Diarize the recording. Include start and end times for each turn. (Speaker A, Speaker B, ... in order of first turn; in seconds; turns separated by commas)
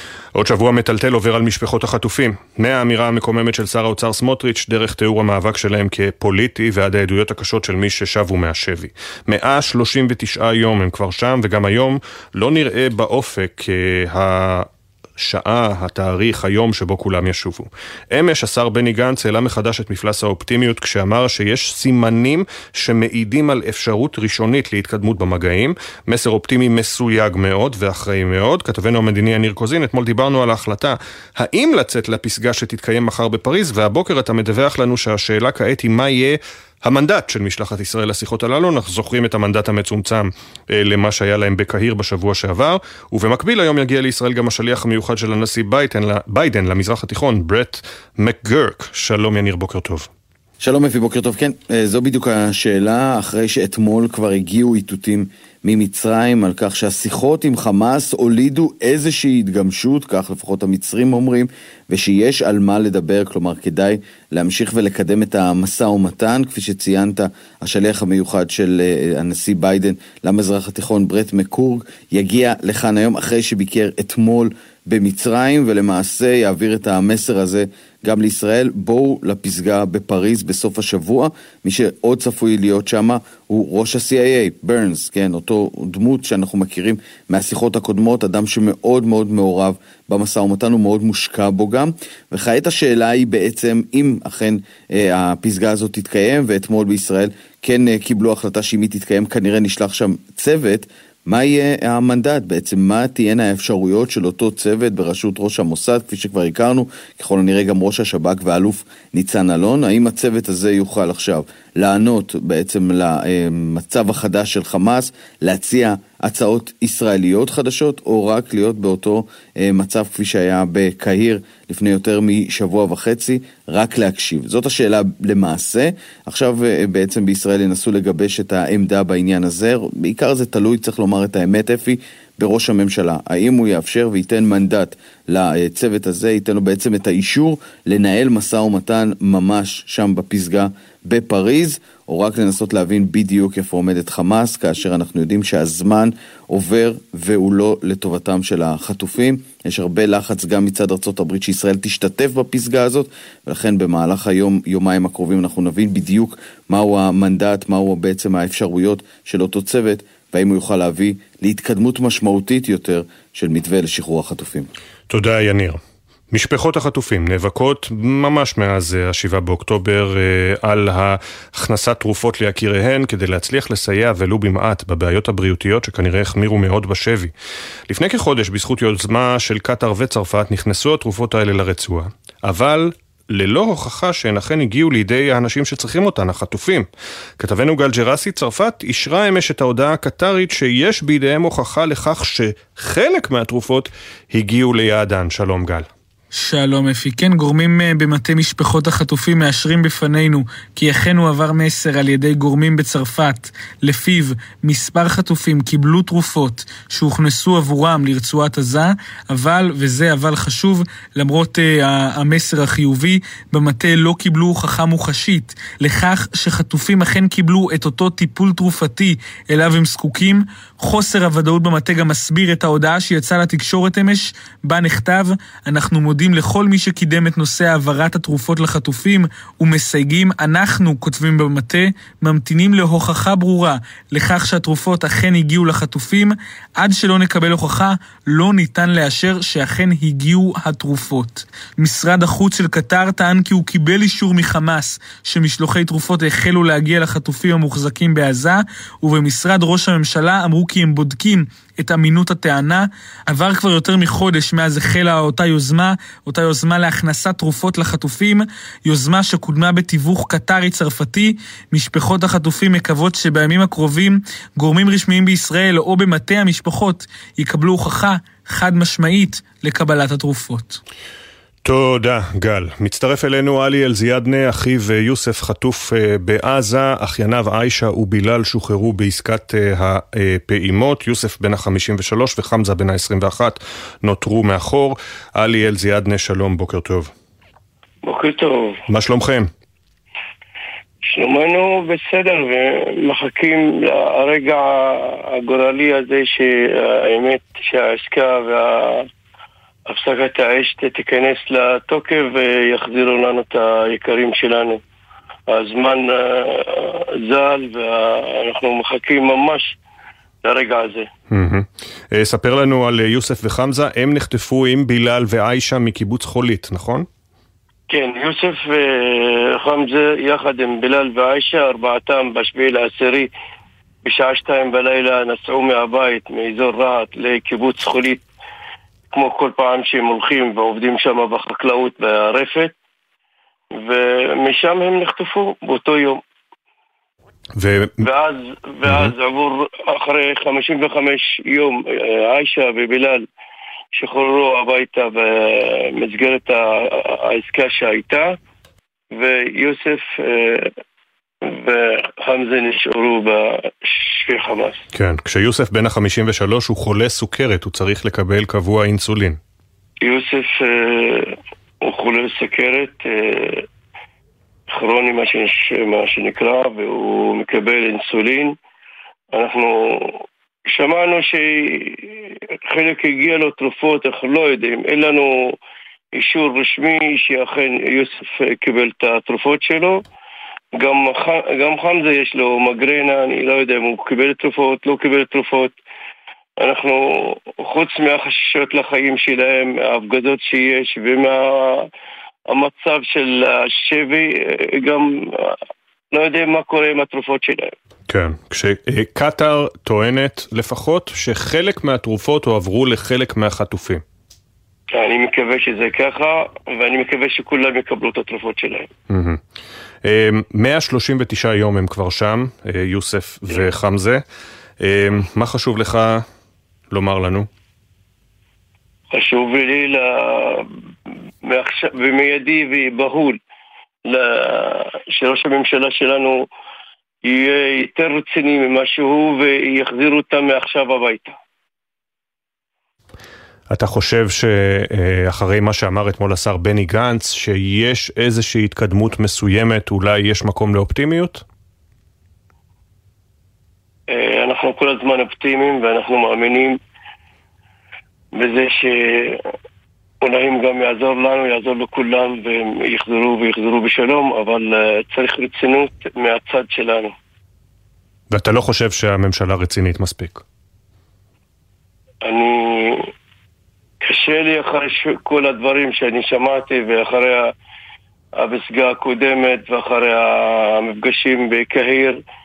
Speaker A: 0.3-50.1, Speaker B: 50.6-164.7, Speaker A: 165.1-165.8, Speaker A: 166.3-177.3, Speaker A: 177.9-186.9, Speaker A: 187.4-195.9, Speaker C: 196.3-270.8, Speaker A: 271.6-287.1, Speaker D: 288.0-288.8, Speaker A: 288.9-289.5, Speaker D: 291.1-299.1, Speaker D: 299.9-304.8, Speaker D: 305.5-309.7, Speaker D: 310.4-311.1, Speaker A: 311.3-317.1, Speaker D: 317.9-323.3, Speaker D: 324.0-328.2, Speaker D: 329.1-332.7, Speaker D: 333.8-336.2, Speaker A: 337.6-338.0, Speaker D: 338.0-343.2, Speaker A: 338.9-339.1, Speaker D: 344.0-348.3, Speaker D: 349.1-350.7, Speaker D: 351.4-354.8, Speaker A: 354.9-359.4, Speaker D: 360.0-363.6, Speaker D: 364.7-368.6, Speaker D: 369.3-375.6, Speaker D: 376.1-380.0, Speaker D: 380.8-385.7, Speaker D: 386.6-391.9, Speaker D: 392.5-395.6, Speaker D: 396.1-397.7, Speaker A: 398.1-404.0, Speaker D: 404.9-408.9, Speaker A: 409.1-409.4, Speaker A: 410.0-414.2, Speaker A: 414.8-416.2, Speaker A: 416.9-417.5, Speaker D: 419.1-420.7, Speaker D: 421.4-423.4, Speaker D: 424.1-426.4, Speaker D: 427.2-431.4, Speaker A: 433.7-441.4, Speaker D: 444.1-446.8, Speaker D: 448.3-449.4, Speaker D: 450.2-457.1, Speaker A: 458.3-460.4, Speaker D: 462.2-463.1, Speaker D: 464.0-467.5, Speaker D: 468.4-472.2